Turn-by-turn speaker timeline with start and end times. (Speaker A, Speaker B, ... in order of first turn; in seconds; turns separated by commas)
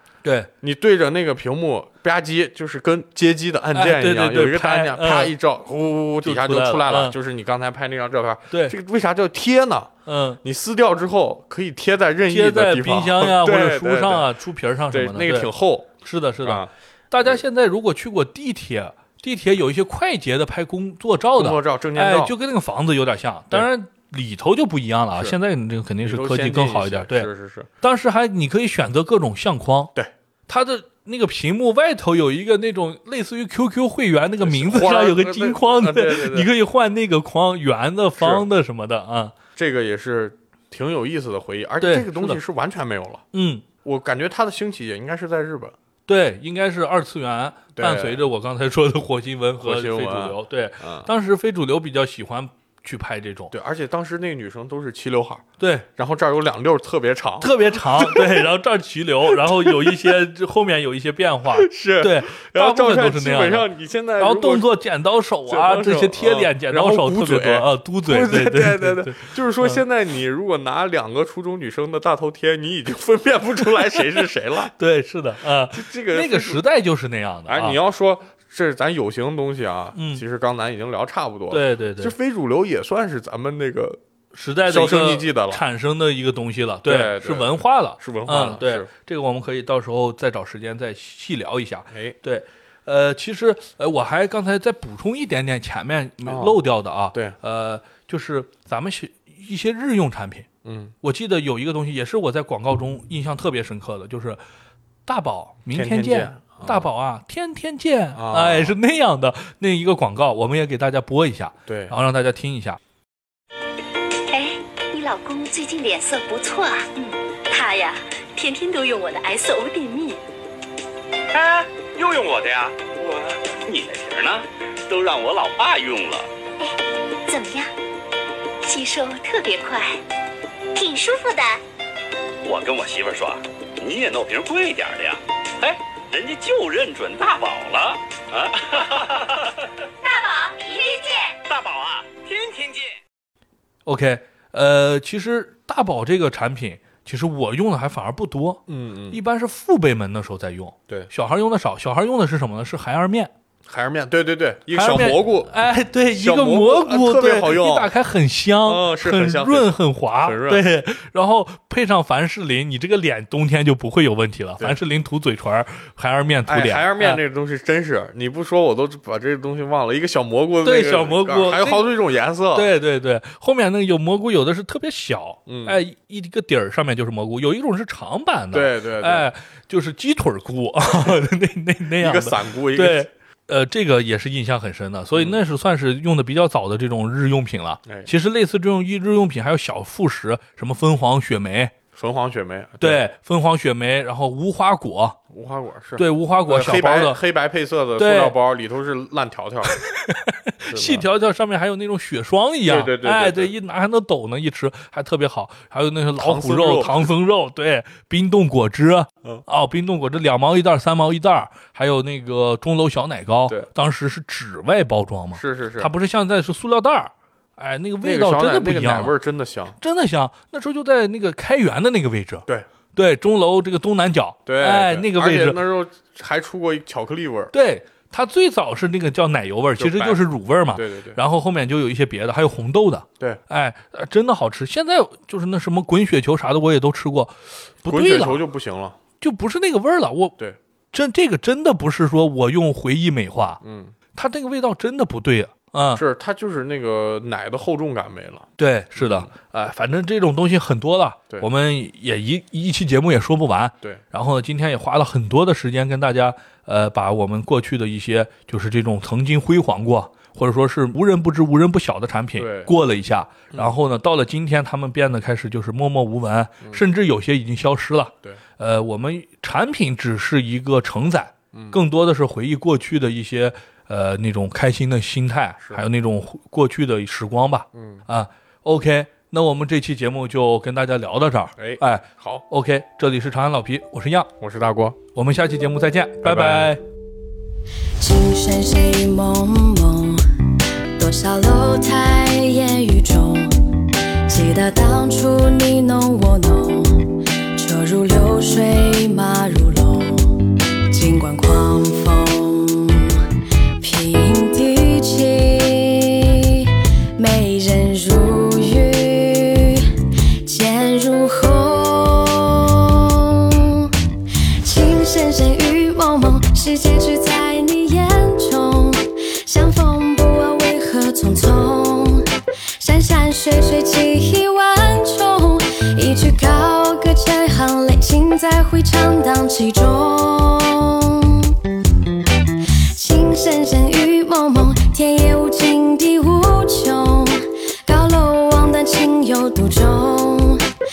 Speaker A: 0.2-0.5, Speaker B: 0.6-9.9, Speaker A: 3.7-5.3, Speaker A: 6.2-7.2, Speaker A: 10.1-10.4, Speaker B: 10.4-14.3, Speaker A: 12.3-15.5, Speaker B: 14.9-17.4, Speaker A: 16.0-27.3, Speaker B: 21.4-22.3, Speaker B: 26.0-27.7, Speaker A: 27.8-29.9, Speaker A: 30.5-39.3, Speaker B: 34.4-36.5, Speaker B: 38.2-38.4, Speaker B: 39.5-43.2, Speaker A: 41.8-42.4, Speaker A: 43.3-43.6, Speaker B: 43.8-45.7, Speaker A: 46.1-53.5, Speaker B: 47.7-48.2, Speaker B: 49.6-51.1, Speaker B: 53.5-58.5, Speaker A: 55.6-55.9, Speaker A: 57.4-63.7, Speaker B: 59.2-60.1, Speaker B: 61.5-64.7, Speaker A: 64.2-69.8, Speaker B: 65.5-74.7, Speaker A: 74.8-77.8, Speaker B: 75.6-76.6, Speaker B: 77.5-84.0, Speaker A: 79.9-80.2, Speaker A: 81.5-82.1, Speaker A: 84.3-100.5, Speaker B: 84.7-85.6, Speaker B: 86.8-88.9, Speaker B: 91.9-92.2, Speaker B: 96.2-96.6, Speaker B: 100.6-100.9, Speaker A: 101.0-104.4, Speaker A: 105.0-112.8, Speaker B: 105.7-106.9, Speaker B: 108.1-108.7, Speaker B: 111.7-111.9, Speaker C: 114.3-120.2, Speaker D: 121.3-126.3, Speaker C: 126.6-127.7, Speaker C: 128.6-130.0, Speaker C: 130.7-131.6, Speaker D: 132.4-139.5, Speaker C: 140.0-141.3, Speaker D: 141.4-142.9, Speaker A: 143.8-153.3, Speaker B: 148.7-149.2, Speaker B: 153.7-155.5, Speaker A: 154.7-167.2, Speaker B: 156.1-157.9, Speaker B: 158.6-160.6, Speaker B: 166.5-172.7, Speaker A: 170.6-171.9, Speaker A: 172.5-191.7, Speaker B: 175.5-175.8, Speaker B: 178.5-179.3, Speaker B: 182.0-183.1, Speaker B: 185.1-185.4, Speaker B: 191.9-193.0, Speaker A: 192.8-195.2, Speaker B: 195.3-199.8, Speaker A: 196.0-197.2, Speaker A: 198.0-198.3, Speaker A: 199.9-219.1, Speaker B: 200.7-201.1, Speaker B: 202.6-203.5, Speaker B: 206.2-207.1, Speaker B: 215.3-215.9, Speaker B: 218.0-219.8, Speaker A: 219.8-225.6, Speaker B: 224.4-227.5, Speaker A: 227.5-238.4, Speaker B: 229.8-231.2, Speaker B: 237.8-239.0, Speaker A: 239.2-240.3, Speaker A: 240.9-243.6, Speaker B: 243.6-243.9, Speaker A: 244.1-246.0, Speaker B: 245.9-249.3, Speaker A: 248.6-284.3, Speaker B: 262.4-262.7, Speaker B: 271.5-271.8, Speaker B: 277.7-278.0, Speaker B: 281.6-282.4, Speaker B: 284.4-285.0, Speaker A: 285.1-286.8, Speaker B: 286.2-286.8, Speaker E: 288.0-290.2, Speaker E: 291.0-293.5, Speaker E: 294.3-297.0, Speaker E: 297.6-300.4, Speaker E: 300.9-303.2, Speaker E: 303.8-309.9, Speaker E: 310.4-313.9, Speaker E: 314.6-322.2, Speaker E: 322.8-331.5, Speaker E: 332.9-340.6